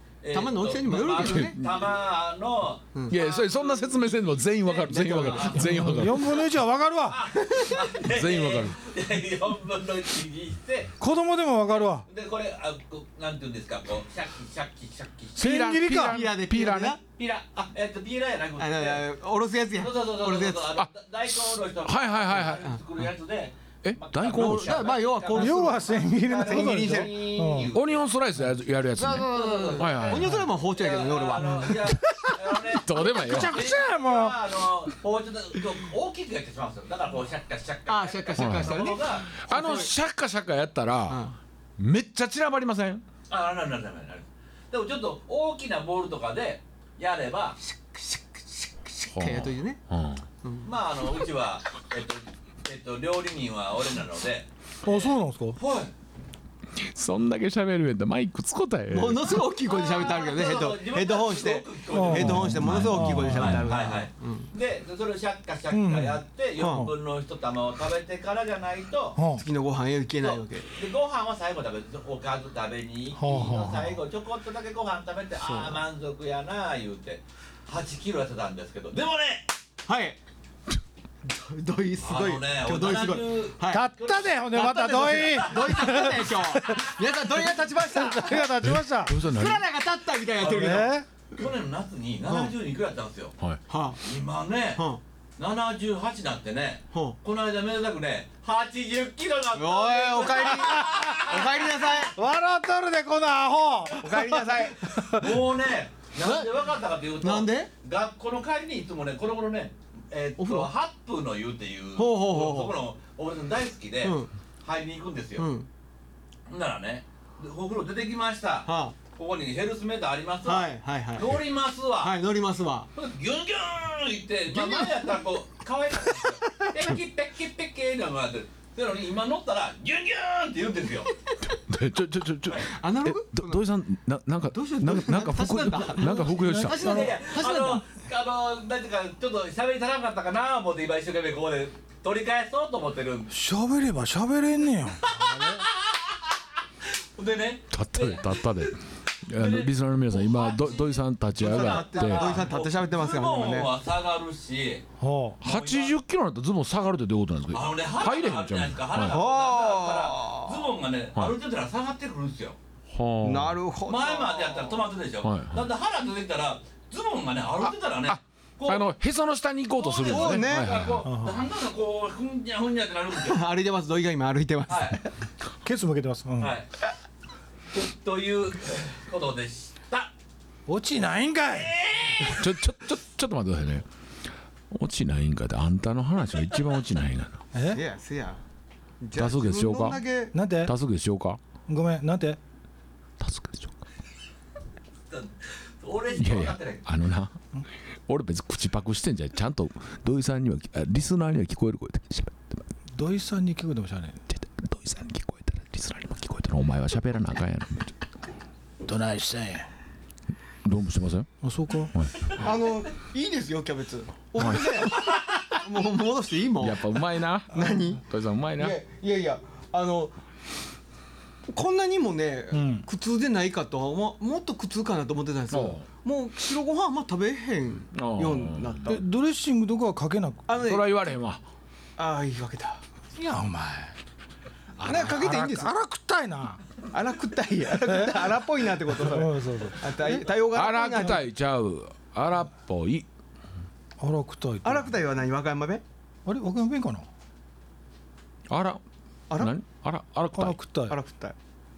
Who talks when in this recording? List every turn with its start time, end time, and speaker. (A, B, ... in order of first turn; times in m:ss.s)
0:00.2-0:06.2 A
0:00.3-0:01.6 B
0:01.1-0:01.9 C
0:03.1-0:06.5 C
0:04.9-0:05.6 B
0:05.6-0:07.3 D
0:07.1-0:10.9 A
0:07.3-0:07.9 B
0:08.0-0:08.8 C
0:11.0-0:12.1 D
0:11.7-0:15.5 A
0:15.4-0:17.0 C
0:15.4-0:16.3 D
0:16.0-0:17.0 B
0:17.1-0:19.1 A
0:18.6-0:20.7 B
0:19.8-0:28.0 A
0:21.5-0:22.7 C
0:22.5-0:22.8 B
0:23.8-0:24.9 C
0:24.2-0:27.3 B
0:25.3-0:27.7 D
0:27.7-0:30.4 C
0:29.0-0:31.9 B
0:29.1-0:39.9 A
0:31.4-0:34.4 D
0:32.7-0:33.7 C
0:37.9-0:39.9 B
0:38.4-0:43.0 C
0:41.1-0:41.4 B
0:43.3-0:47.6 A
0:47.6-0:49.8 B
0:49.1-0:50.2 C
0:50.4-0:50.7 B
0:50.6-0:55.9 A
0:54.8-0:55.6 D
0:56.7-0:59.4 C
0:58.9-1:04.5 B
0:59.7-1:02.7 A
1:01.9-1:03.7 D
1:02.4-1:03.7 C
1:03.4-1:09.2 A
1:05.7-1:06.9 D
1:06.6-1:06.9 B
1:09.2-1:09.4 D
1:09.4-1:10.7 B
1:10.2-1:19.5 A
1:13.2-1:14.0 D
1:19.9-1:20.2 B
1:21.2-1:23.9 B
1:22.0-1:24.4 A
1:23.7-1:26.9 D
1:24.5-1:30.9 B
1:27.8-1:29.2 D
1:28.6-1:29.6 C
1:30.4-1:33.4 A
1:30.4-1:31.1 D
1:32.3-1:32.5 B
1:33.7-1:34.0 B
1:34.0-1:34.8 A
1:34.8-1:35.0 B
1:35.4-1:41.8 A
1:36.9-1:37.2 B
1:39.6-1:42.2 B
1:40.7-1:41.2 D
1:42.1-1:45.4 D
1:43.9-1:45.1 B
1:44.8-1:55.5 A
1:46.2-1:46.7 B
1:47.2-1:47.7 B
1:50.4-1:50.7 B
1:52.0-1:52.8 B
1:54.0-1:54.3 B
1:55.4-1:55.7 B
1:56.5-2:02.2 A
1:58.7-1:59.0 B
2:00.4-2:02.9 B
2:03.0-2:11.1 A
2:04.5-2:05.2 B
2:11.6-2:16.8 C
2:12.7-2:13.6 B
2:14.5-2:17.8 B
2:16.7-2:23.3 A
2:16.8-2:17.1 D
2:23.3-2:25.6 D
2:25.0-2:26.2 A
2:26.8-2:34.8 A
2:27.7-2:32.4 C
2:31.4-2:33.7 B
2:35.0-2:35.4 D
2:35.4-2:39.2 C
2:35.4-2:35.9 A
2:37.5-2:42.6 A
2:39.1-2:40.7 B
2:42.9-2:43.6 C
2:43.2-2:44.9 B
2:43.9-2:48.9 A
2:45.2-2:45.6 C
2:47.6-2:51.0 C
2:49.8-2:53.5 A
2:50.1-2:50.8 B
2:51.0-2:51.5 D
2:53.2-2:55.1 B
2:54.7-2:55.0 A
2:55.6-2:56.6 D
2:56.4-2:56.7 A
2:57.7-3:00.1 A
3:00.7-3:01.7 D
3:01.5-3:02.5 A
3:02.2-3:03.9 C
3:04.7-3:07.4 C
3:07.5-3:07.8 D
3:07.7-3:08.4 B
3:09.0-3:10.4 B
3:09.2-3:10.0 C
3:10.3-3:10.7 D
3:10.6-3:11.4 C
3:11.7-3:12.4 D
3:13.2-3:13.8 C
3:15.1-3:16.8 A
3:16.2-3:17.4 C
3:17.9-3:22.7 C
3:23.0-3:24.3 D
3:24.3-3:28.0 C
3:28.8-3:29.7 D
3:30.6-3:31.3 C
3:31.4-3:32.0 D
3:31.9-3:32.3 C
3:32.3-3:38.0 B
3:34.4-3:34.9 C
3:36.6-3:38.8 C
3:38.6-3:40.2 B
3:41.5-3:49.0 B
3:42.5-3:42.9 D
3:45.5-3:45.9 C
3:47.9-3:49.0 C
3:48.9-3:50.5 D
3:50.5-3:50.9 B
3:50.6-3:51.4 C
3:52.0-3:52.8 B
3:53.2-3:53.9 D
3:54.8-3:55.2 C
3:54.8-3:55.7 B
3:54.9-3:56.6 D
3:56.9-4:01.2 B
3:57.8-4:00.2 D
4:00.5-4:03.1 C
4:04.0-4:04.9 D
4:04.6-4:05.8 B
4:06.3-4:07.1 D
4:08.5-4:08.8 C
4:09.4-4:10.6 C
4:10.4-4:11.0 D
4:10.9-4:11.4 B